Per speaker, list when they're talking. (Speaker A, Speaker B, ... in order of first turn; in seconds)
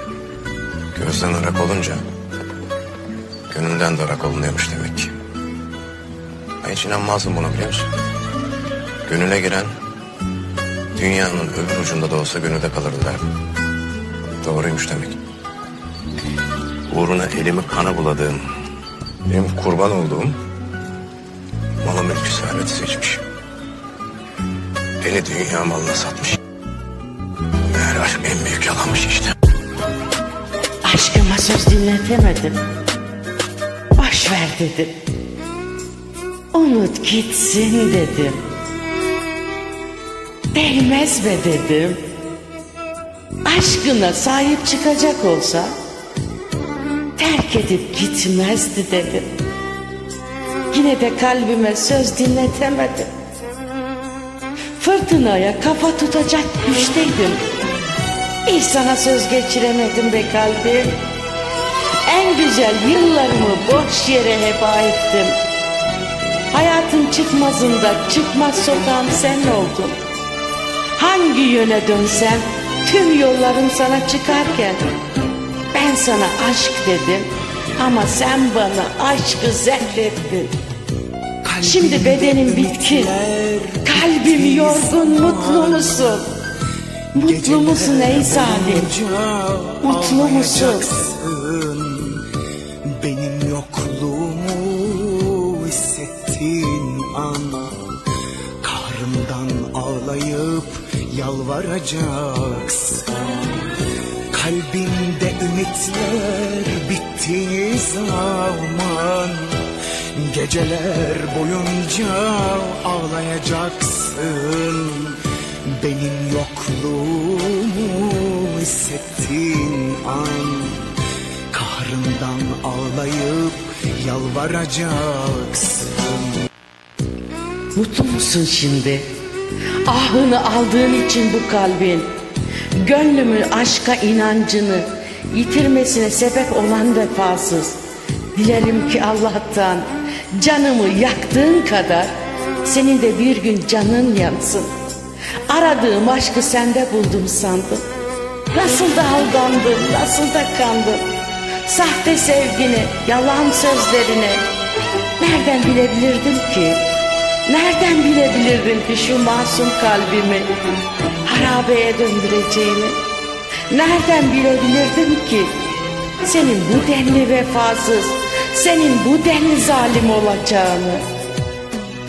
Speaker A: 0.9-2.0, 3.5-5.1, 6.6-7.9, 9.1-9.7, 11.0-13.3, 14.4-15.2, 16.9-18.4, 19.3-20.4, 21.8-23.2, 25.0-26.4, 27.7-29.4
Speaker B: 30.8-32.6, 34.0-35.0, 36.5-38.4, 40.5-42.0, 43.5-45.7, 47.2-49.4, 50.7-53.1, 54.8-57.4, 58.5-61.0, 62.1-65.4, 66.5-70.0, 71.0-74.8, 75.7-80.5, 81.6-83.1, 83.8-86.3, 87.2-89.0, 89.8-90.9, 127.8-129.1, 129.9-132.1, 132.8-137.8, 138.3-142.1, 142.6-144.7, 145.5-147.8, 148.5-151.1, 151.7-154.4, 155.2-156.9, 157.5-160.5, 161.2-163.0, 163.7-165.5, 166.2-171.0
Speaker C: 81.4-86.2, 87.2-92.3, 92.8-97.9, 98.6-103.2, 104.3-120.9, 121.5-126.5